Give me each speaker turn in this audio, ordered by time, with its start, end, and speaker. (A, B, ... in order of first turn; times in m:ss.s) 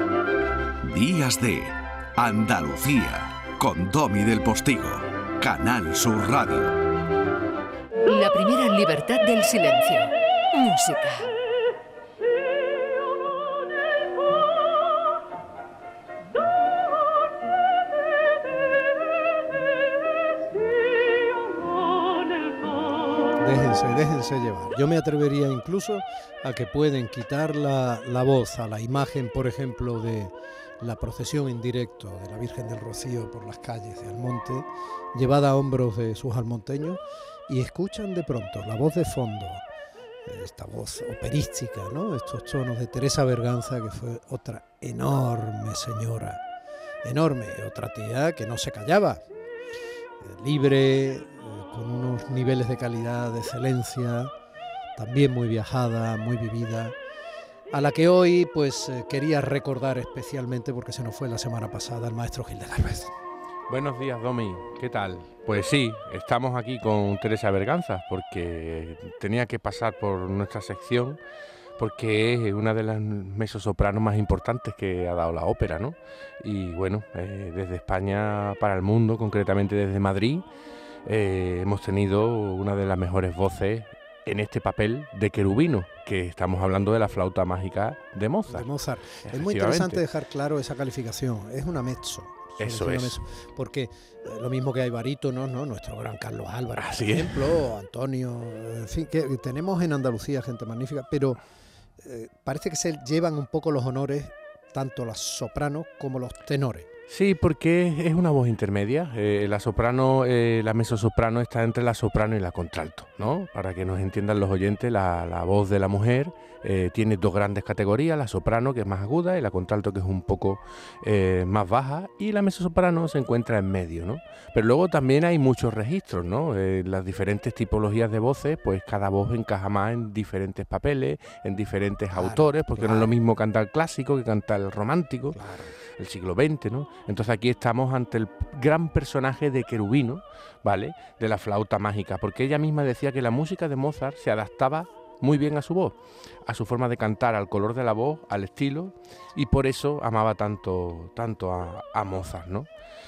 0:00.8-0:06.8 A
0:08.0-0:11.3 B
0:23.4-0:39.6 C
0:40.2-0:46.4 C
0:47.0-0:49.2 C
0:50.2-0:54.3 C
0:55.0-0:57.0 C
0:57.7-1:03.1 C
1:03.7-1:11.2 D
1:11.8-1:20.4 D
1:21.0-1:28.7 D
1:28.5-1:41.4 C
1:29.2-1:30.0 D
1:32.6-1:33.2 D
1:36.8-1:37.6 D
1:42.0-1:46.8 C
1:47.1-2:15.4 D
2:12.1-2:13.1 C
2:15.3-2:15.8 C
2:16.0-2:32.7 D